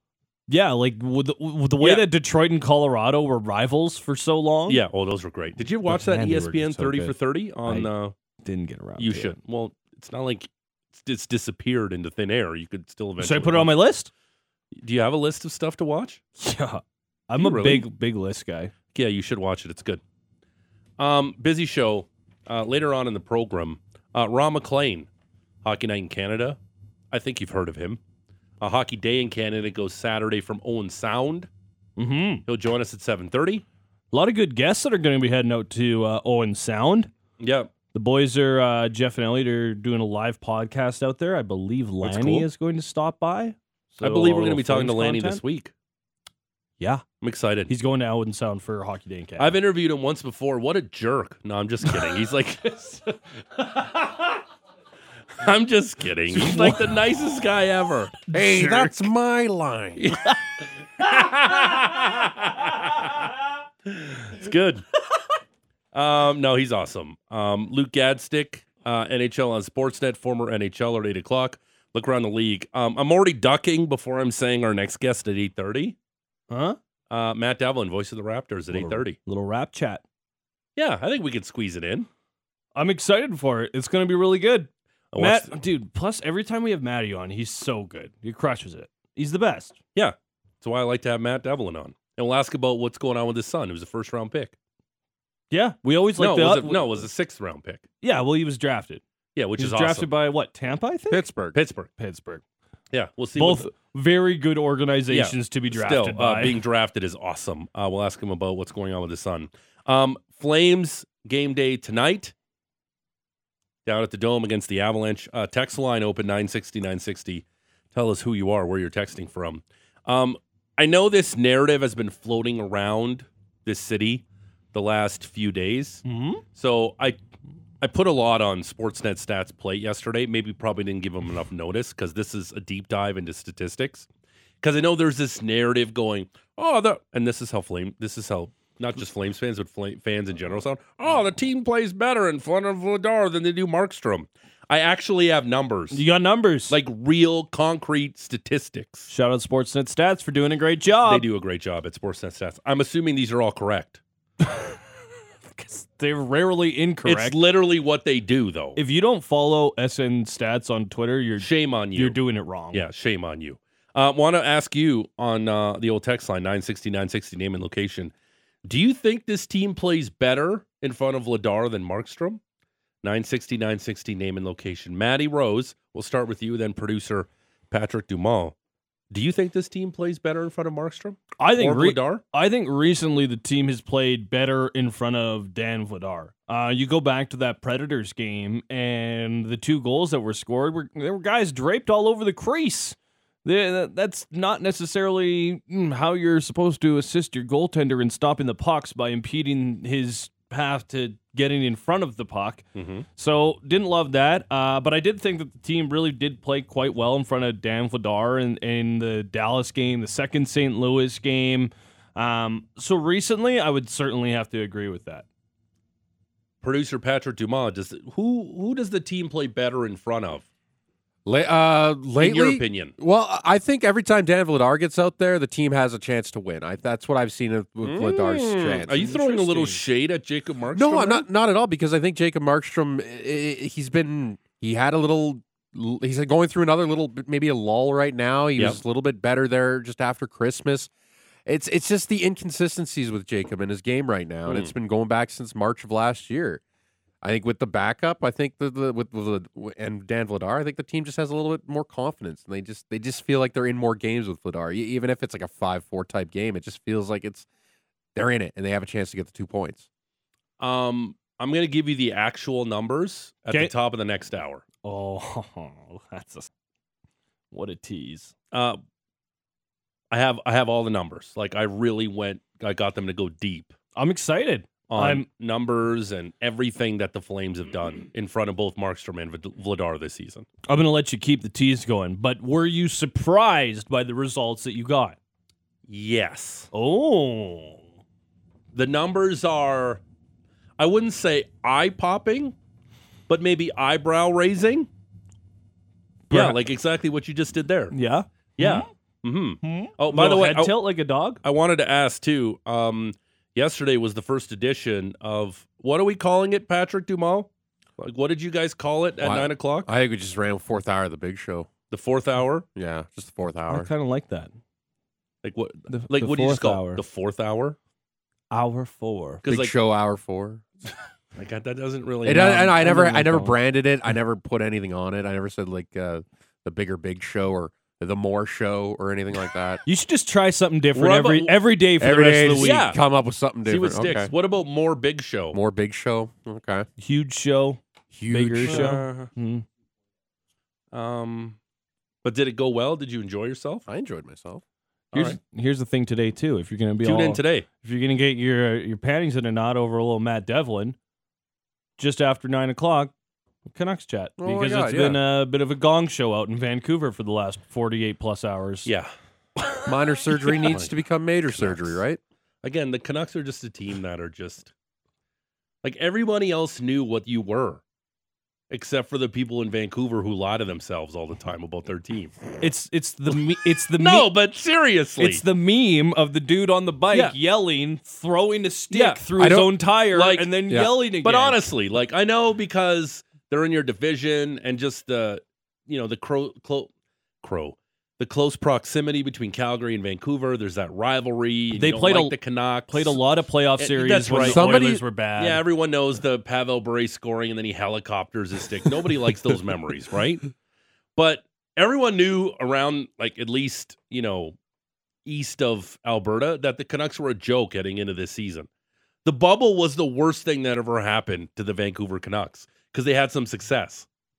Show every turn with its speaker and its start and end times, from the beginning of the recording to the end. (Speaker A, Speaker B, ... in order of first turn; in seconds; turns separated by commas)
Speaker A: 0.5-4.8, Speaker B: 1.8-2.1, Speaker B: 4.7-8.2, Speaker A: 5.9-7.9, Speaker A: 8.4-9.4, Speaker B: 9.0-13.7, Speaker A: 13.2-14.1, Speaker B: 14.8-16.2, Speaker A: 16.4-18.7, Speaker B: 17.4-17.9, Speaker B: 18.9-20.0, Speaker B: 21.0-25.1, Speaker B: 25.6-26.6, Speaker B: 27.1-28.0, Speaker B: 28.6-31.5, Speaker A: 32.0-32.4, Speaker B: 32.5-33.6, Speaker A: 34.1-37.1, Speaker B: 37.4-37.7, Speaker A: 37.9-45.4, Speaker B: 42.0-42.5, Speaker B: 44.0-45.7, Speaker A: 46.8-47.0, Speaker B: 47.2-47.7, Speaker A: 47.7-49.5, Speaker B: 49.4-53.0, Speaker B: 55.4-58.2, Speaker A: 56.3-56.8, Speaker C: 58.3-60.2, Speaker A: 58.3-58.9, Speaker B: 60.0-60.3, Speaker B: 61.0-63.2, Speaker B: 63.9-64.8, Speaker B: 65.9-76.0, Speaker A: 76.5-76.8, Speaker B: 77.1-79.2, Speaker A: 78.7-80.0, Speaker B: 80.8-82.1, Speaker A: 82.8-89.8, Speaker B: 85.1-85.5, Speaker B: 90.0-94.5, Speaker A: 95.5-97.1, Speaker B: 96.2-97.8, Speaker A: 98.0-99.0, Speaker B: 99.3-100.1, Speaker A: 99.6-101.3, Speaker C: 101.1-101.6, Speaker B: 101.5-101.9, Speaker A: 102.0-102.4, Speaker B: 102.9-103.7, Speaker A: 103.4-106.6, Speaker B: 105.1-112.3, Speaker B: 113.9-126.0, Speaker A: 126.0-126.4, Speaker B: 126.5-127.2, Speaker B: 127.8-134.1, Speaker B: 134.6-146.0, Speaker A: 145.9-146.8, Speaker B: 146.7-149.1, Speaker A: 149.1-151.3, Speaker B: 151.1-154.0, Speaker A: 154.4-154.8, Speaker A: 155.5-157.4, Speaker B: 157.0-158.8, Speaker A: 158.8-162.8, Speaker B: 161.4-162.2, Speaker B: 162.7-168.1, Speaker B: 168.7-172.4, Speaker B: 173.0-178.6, Speaker B: 179.1-182.2, Speaker A: 181.4-202.7, Speaker B: 202.8-203.1, Speaker A: 203.2-215.2, Speaker B: 216.6-220.4, Speaker C: 221.2-229.8, Speaker B: 222.2-222.9, Speaker B: 227.8-231.3, Speaker C: 230.7-240.9, Speaker C: 241.5-246.6, Speaker B: 244.5-244.7, Speaker C: 247.2-257.5, Speaker C: 258.1-259.9, Speaker B: 260.6-264.6, Speaker A: 264.8-266.5, Speaker A: 267.5-268.3, Speaker B: 268.5-268.8, Speaker B: 270.1-273.7, Speaker A: 273.9-275.2, Speaker B: 274.9-280.5, Speaker A: 280.7-285.2, Speaker B: 285.9-286.7, Speaker A: 286.7-287.8, Speaker B: 288.7-290.0, Speaker B: 290.8-292.6, Speaker B: 293.3-294.9, Speaker A: 296.3-296.6, Speaker B: 296.3-297.9, Speaker A: 297.9-298.9, Speaker B: 298.6-300.8, Speaker A: 299.6-301.4, Speaker B: 301.4-309.9, Speaker C: 309.2-311.7, Speaker B: 311.9-312.7, Speaker C: 312.8-313.9, Speaker A: 313.7-314.5, Speaker B: 315.4-317.8, Speaker A: 315.9-317.0, Speaker A: 318.5-319.4, Speaker B: 319.4-319.8, Speaker C: 319.5-320.7, Speaker B: 321.4-322.8, Speaker C: 322.2-329.8, Speaker A: 322.4-323.6, Speaker A: 329.9-332.8, Speaker B: 330.9-331.6, Speaker C: 332.0-334.3, Speaker B: 332.6-333.0, Speaker B: 333.6-335.6, Speaker C: 335.5-336.9, Speaker A: 337.0-339.6, Speaker C: 338.1-339.0, Speaker B: 338.5-339.3, Speaker B: 340.9-341.6, Speaker B: 342.2-343.9, Speaker C: 343.9-344.6, Speaker B: 345.1-345.4, Speaker A: 345.1-351.0, Speaker B: 347.0-347.7, Speaker A: 352.0-353.1, Speaker A: 353.7-358.9, Speaker C: 354.4-355.2, Speaker C: 359.9-362.2, Speaker B: 360.6-360.9, Speaker B: 361.5-362.0, Speaker B: 362.6-364.7, Speaker B: 365.8-367.8, Speaker B: 368.7-372.4, Speaker A: 372.6-374.3, Speaker B: 374.0-375.4, Speaker A: 375.2-381.6, Speaker B: 378.9-379.2, Speaker C: 379.4-379.8, Speaker B: 380.1-380.5, Speaker B: 381.2-386.9, Speaker B: 387.4-393.2, Speaker A: 391.8-392.4, Speaker A: 392.9-395.6, Speaker B: 393.8-400.5, Speaker C: 394.4-395.0, Speaker B: 401.2-404.6, Speaker B: 405.2-408.7, Speaker B: 409.2-414.1